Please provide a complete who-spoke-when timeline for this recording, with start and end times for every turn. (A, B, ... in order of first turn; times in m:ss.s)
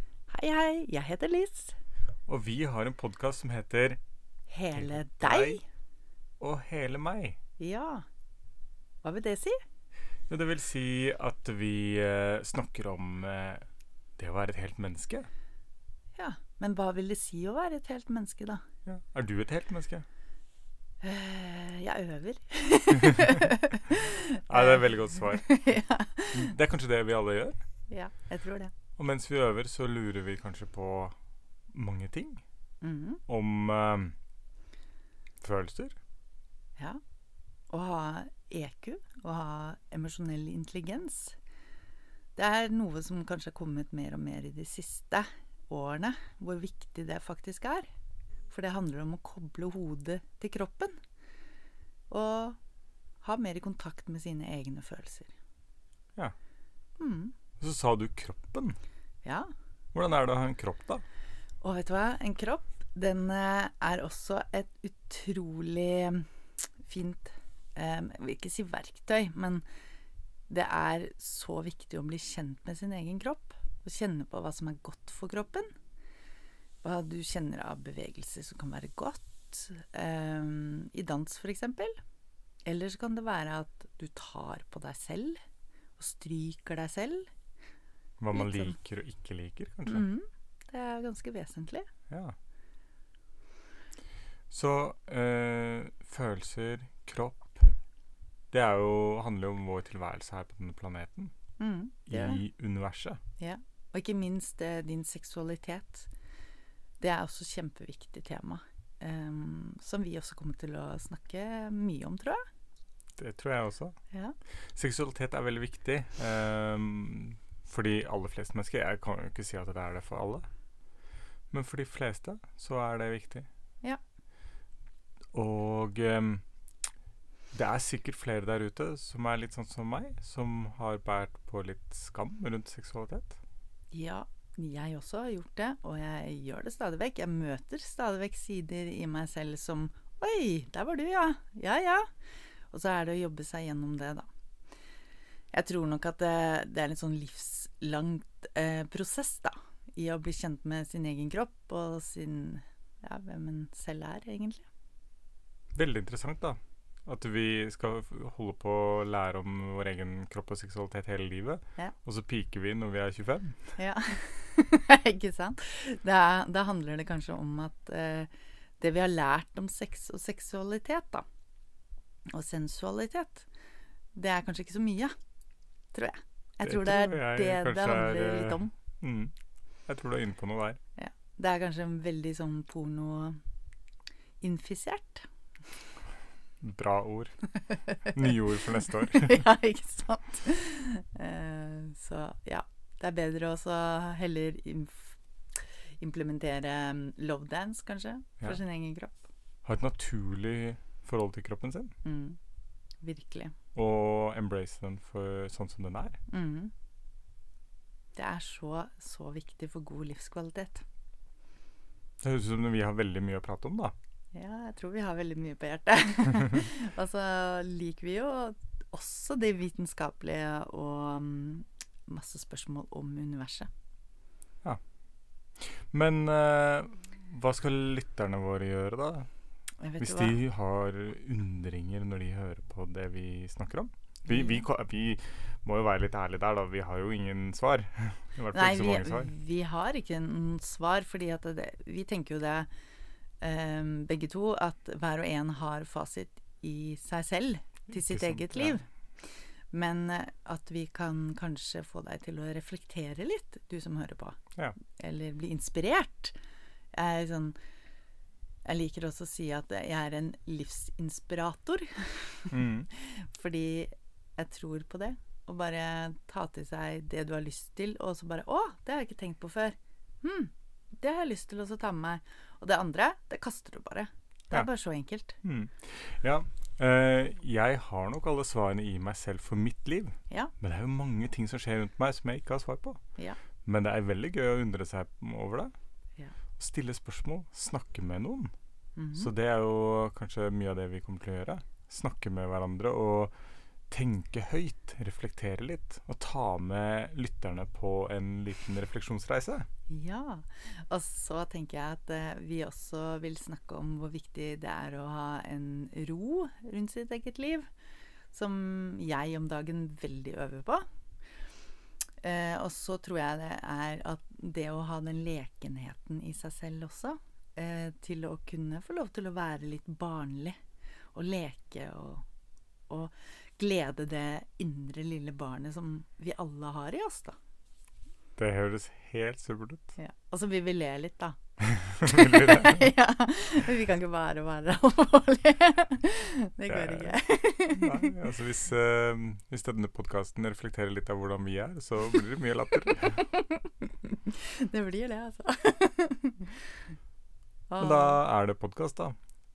0:00.3-0:01.8 A
0:02.3-0:04.0 B
0:04.5-0:05.6 A
0:04.8-0:05.6 B
0:06.4-0:07.4 B
0:07.6-0:08.0 A
0:09.0-0:09.6 A
0:10.3-0:13.7 B
0:14.2-0:15.3 B
0:16.2-0:18.6 A
0:18.9-0:20.0 B
0:21.0-0:26.5 A
0:24.5-0:27.6 B
0:27.9-0:28.7 A
0:29.0-0:31.2 B
0:31.7-0:32.4 B
0:32.8-0:33.2 A
0:33.3-0:34.2 B
0:35.4-0:36.0 B
0:37.7-0:41.4 A
0:42.4-0:47.9 A
0:48.5-0:51.0 A
0:52.1-0:52.6 A
0:53.2-0:55.3 A
0:57.0-0:57.3 A
0:57.6-0:58.8 B
0:59.2-0:59.5 A
0:59.9-1:01.0 B
1:01.6-1:06.3 A
1:06.8-1:09.6 A
1:10.5-1:15.7 A
1:16.8-1:22.0 A
1:22.6-1:25.4 A
1:26.0-1:27.3 A
1:28.2-1:30.0 B
1:28.3-1:28.8 A
1:29.9-1:31.9 A
1:32.1-1:32.4 B
1:34.5-1:37.8 B
1:38.5-1:41.3 B
1:41.6-1:42.4 A
1:42.1-1:43.2 B
1:43.4-1:46.1 A
1:47.0-1:52.4 A
1:53.2-1:54.0 B
1:54.1-1:54.4 A
1:54.7-2:00.5 B
2:01.5-2:03.5 B
2:05.3-2:06.4 B
2:07.5-2:13.4 B
2:13.9-2:22.1 A
2:22.7-2:24.3 A
2:25.5-2:34.7 A
2:35.7-2:43.8 B
2:43.8-2:51.2 A
2:52.3-2:53.5 A
2:54.1-2:55.1 A
2:55.9-2:58.7 A
2:56.6-2:59.3 B
2:59.9-3:00.8 B
3:01.0-3:03.4 A
3:04.4-3:05.3 A
3:06.6-3:09.4 B
3:09.0-3:19.2 A
3:19.6-3:21.9 B
3:22.0-3:22.4 A
3:23.0-3:23.5 A
3:23.8-3:26.2 B
3:26.3-3:26.7 A
3:28.2-3:30.8 A
3:32.2-3:33.9 B
3:34.3-3:43.7 A
3:44.6-3:44.9 B
3:45.4-3:49.3 B
3:49.8-3:50.4 A
3:50.0-3:59.3 B
3:54.3-3:54.6 A
3:58.5-4:02.7 A
4:03.4-4:16.3 A
4:07.9-4:08.8 B
4:16.9-4:17.6 A
4:18.6-4:35.4 A
4:22.5-4:22.9 B
4:35.4-4:43.0 B
4:43.6-4:45.7 B
4:46.6-4:48.5 B
4:49.0-4:49.3 A
4:49.2-4:53.4 B
4:53.9-4:59.7 B
4:59.9-5:07.7 A
5:08.3-5:10.9 A
5:12.2-5:20.6 A
5:21.1-5:22.2 A
5:22.9-5:27.4 A
5:28.4-5:29.9 B
5:30.0-5:31.4 A
5:31.9-5:32.9 B
5:31.9-5:38.1 A
5:36.7-5:43.2 B
5:43.3-5:46.6 A
5:47.7-5:48.2 A
5:47.8-5:49.2 B